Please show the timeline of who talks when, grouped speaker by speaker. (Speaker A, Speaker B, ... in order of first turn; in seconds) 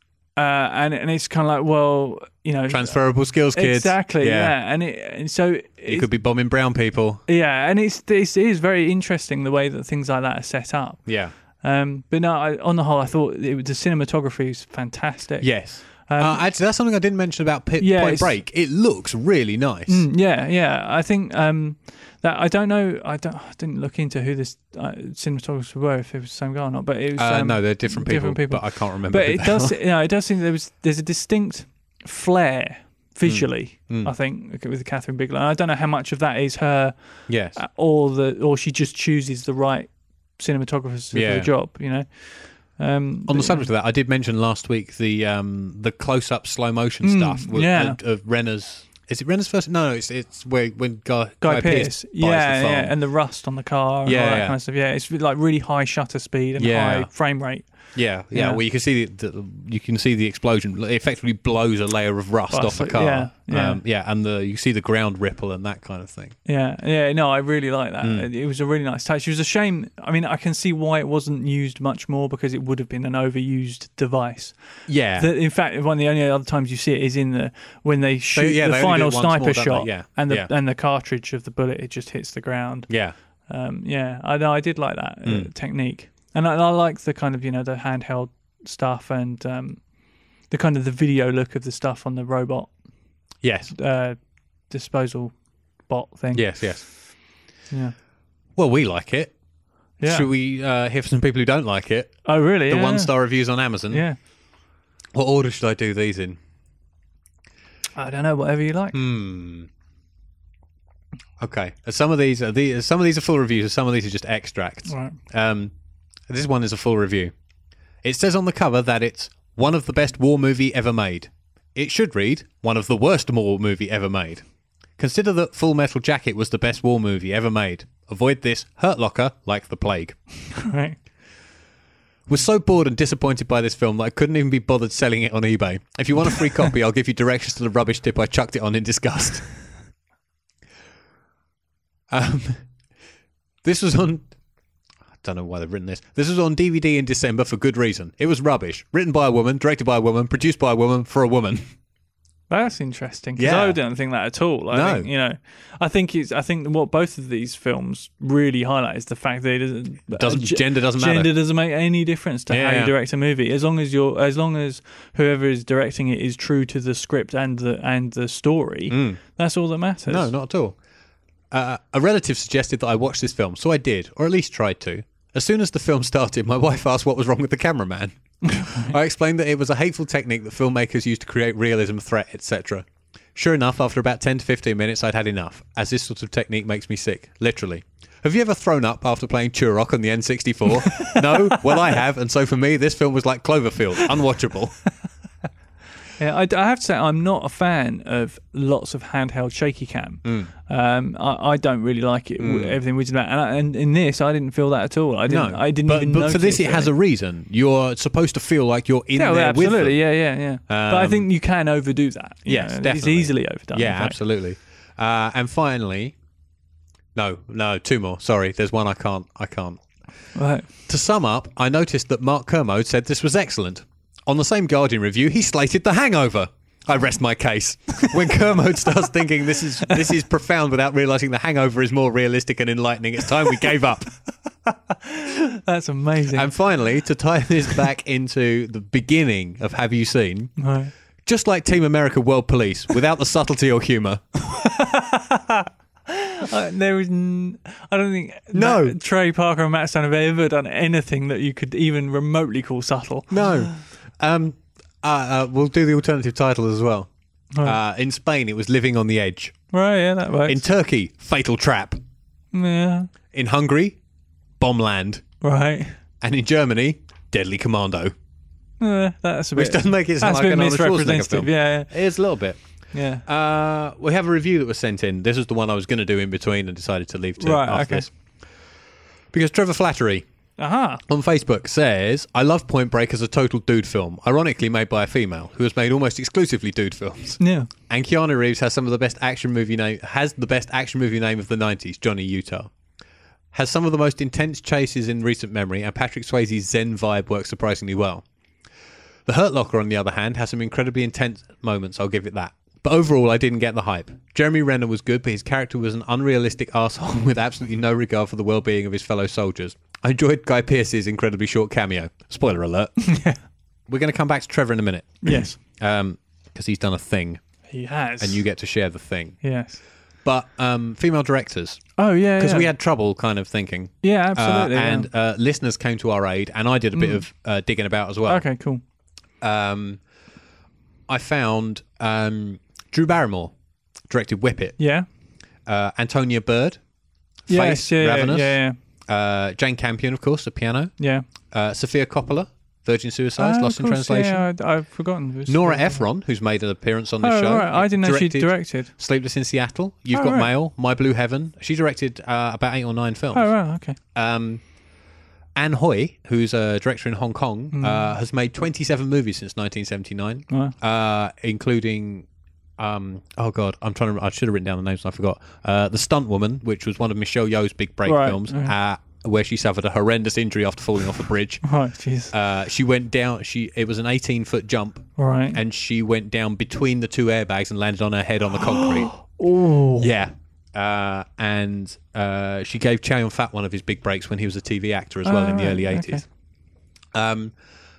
Speaker A: 0.3-6.1, 7.3-11.1, 11.6-16.5, 17.8-18.4, 19.9-37.0, 37.5-43.7, 47.0-48.0, 51.4-58.6, 62.5-63.8, 66.4-82.9, 83.5-89.8, 90.5-92.7, 93.7-94.2, 94.7-95.3, 95.9-96.8, 97.7-97.9, 100.0-100.3, 102.2-103.1, 103.9-104.2, 107.9-109.0, 114.9-115.2, 130.5-131.0, 152.5-170.3, 178.5-178.9, 190.8-191.9, 196.2-206.9, 209.2-214.2, 220.3-220.7, 234.9-236.5, 240.6-240.9, 244.4-253.8, 259.7-260.6, 262.5-263.1, 265.4-265.9, 268.8-271.9, 272.9-273.2, 277.4-278.1, 280.6-281.0, 287.4-287.7, 313.0-313.4, 315.2-315.6, 317.7-318.4, 319.4-319.8, 322.0-322.7, 324.0-325.1, 326.9-327.2, 328.3-328.8, 334.8-335.1, 337.5-338.8, 341.0-341.2, 343.4-346.0, 347.2-348.9, 350.1-350.5, 353.3-354.0, 357.7-358.1, 360.5-360.7, 368.0-368.7, 371.6-372.3, 375.2-375.6, 378.5-380.1, 385.2-386.2
Speaker B: 2.7-4.5, 5.9-7.2, 11.1-11.3, 15.4-20.1, 27.1-29.8, 33.2-34.1, 37.3-37.6, 41.1-41.5, 43.3-52.9, 54.0-54.5, 56.6-57.1, 57.9-66.3, 68.0-68.3, 74.9-75.3, 78.3-80.5, 82.9-83.1, 85.2-85.5, 93.4-93.7, 96.3-96.8, 98.6-99.3, 100.0-104.0, 105.1-106.4, 108.9-109.7, 111.4-115.7, 116.3-117.3, 118.0-124.4, 125.0-130.2, 132.3-139.4, 142.1-142.6, 143.6-144.3, 145.2-151.7, 153.4-153.8, 154.7-155.1, 160.1-161.3, 162.5-162.9, 168.9-169.2, 170.1-170.8, 171.5-194.8, 200.2-200.5, 202.4-202.8, 205.3-210.0, 210.7-211.3, 212.4-216.1, 217.1-219.8, 220.9-234.1, 236.3-240.5, 241.2-244.2, 248.5-249.0, 253.3-257.1, 257.6-259.6, 260.4-262.0, 263.3-264.0, 264.6-265.2, 266.2-268.1, 269.5-272.6, 273.2-278.1, 279.3-280.2, 281.1-292.7, 293.5-298.2, 299.2-313.0, 313.9-317.4, 318.2-319.4, 320.2-328.4, 329.4-330.0, 331.1-333.5, 334.1-334.8, 335.6-336.8, 337.5-340.9, 341.5-344.4, 345.5-353.5, 354.1-354.6, 355.6-362.3, 362.8-371.6, 372.3-379.1, 380.0-386.2, 387.1-387.5